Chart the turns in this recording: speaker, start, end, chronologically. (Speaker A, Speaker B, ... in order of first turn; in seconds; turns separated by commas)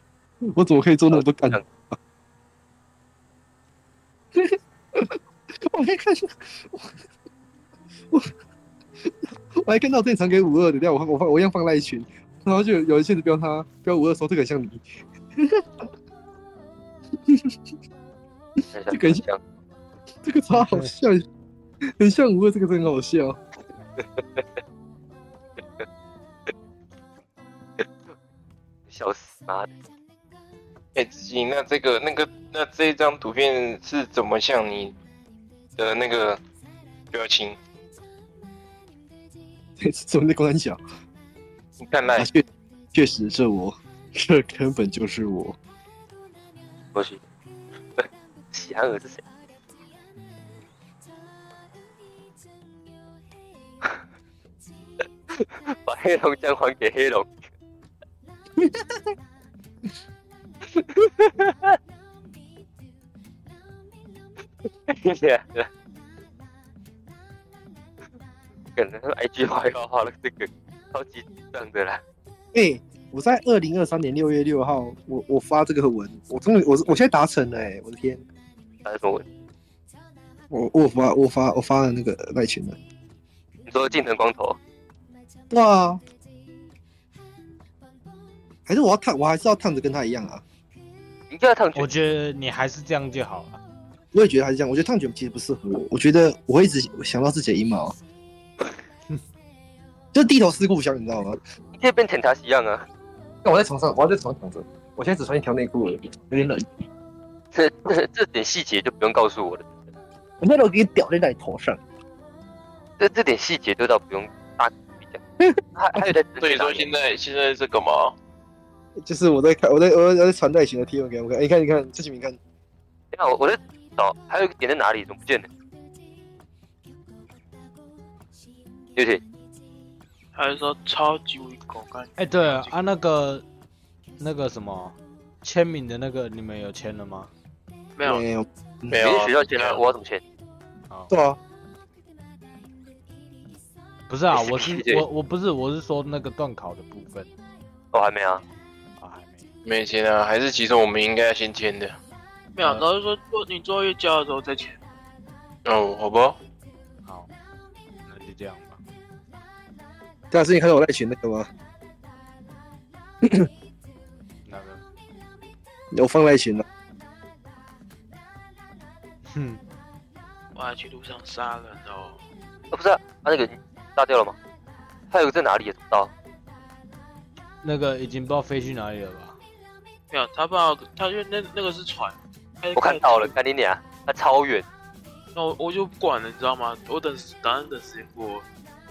Speaker A: 0.5-2.0, Speaker B: 1.1-1.6, Speaker A: 4.3-7.0, Speaker A: 9.1-14.8, Speaker A: 15.4-15.9, Speaker A: 17.3-17.6, Speaker B: 18.7-19.4, Speaker A: 18.9-19.2, Speaker A: 20.2-21.2, Speaker C: 20.5-20.9, Speaker A: 22.0-23.4, Speaker B: 24.0-24.4, Speaker B: 28.9-29.7, Speaker D: 30.9-35.0, Speaker D: 35.8-36.4, Speaker D: 37.1-37.6, Speaker A: 39.8-40.8, Speaker D: 41.8-42.3, Speaker A: 42.2-42.4, Speaker A: 42.9-45.6, Speaker B: 46.9-47.2, Speaker B: 48.0-49.2, Speaker B: 55.3-57.4, Speaker A: 58.6-59.1, Speaker B: 60.7-61.7, Speaker B: 64.9-65.7, Speaker B: 68.8-72.0, Speaker A: 72.5-78.2, Speaker B: 78.8-79.2, Speaker A: 80.5-82.8, Speaker B: 83.7-84.6, Speaker A: 85.5-86.0, Speaker A: 88.7-90.4, Speaker B: 91.3-91.9, Speaker C: 91.8-93.6, Speaker A: 94.1-98.0, Speaker A: 100.1-101.4, Speaker B: 101.7-102.9, Speaker A: 103.4-106.7, Speaker B: 107.5-109.7, Speaker A: 110.4-111.8, Speaker B: 113.0-115.2, Speaker A: 115.4-116.1, Speaker B: 115.8-116.9, Speaker D: 116.4-118.2, Speaker A: 119.0-122.4, Speaker B: 123.1-125.5, Speaker B: 129.0-129.2, Speaker E: 130.3-132.8, Speaker C: 132.2-133.4, Speaker C: 134.2-137.3, Speaker E: 138.0-138.2, Speaker A: 138.0-139.0, Speaker D: 138.9-139.8, Speaker B: 139.0-140.2, Speaker A: 141.1-141.4, Speaker C: 144.1-147.3, Speaker B: 144.3-145.0, Speaker B: 147.9-148.4, Speaker C: 149.0-149.5, Speaker D: 149.7-152.0, Speaker E: 152.6-154.8, Speaker C: 152.6-152.9, Speaker D: 155.7-156.4, Speaker C: 158.1-158.8, Speaker A: 160.3-161.5, Speaker A: 163.2-163.5, Speaker C: 164.5-164.8, Speaker A: 165.9-166.7, Speaker C: 169.3-169.6, Speaker E: 170.6-172.2, Speaker B: 172.7-174.3, Speaker B: 175.1-176.1, Speaker C: 177.6-179.4, Speaker E: 180.1-183.3, Speaker B: 182.8-184.7, Speaker E: 185.3-188.5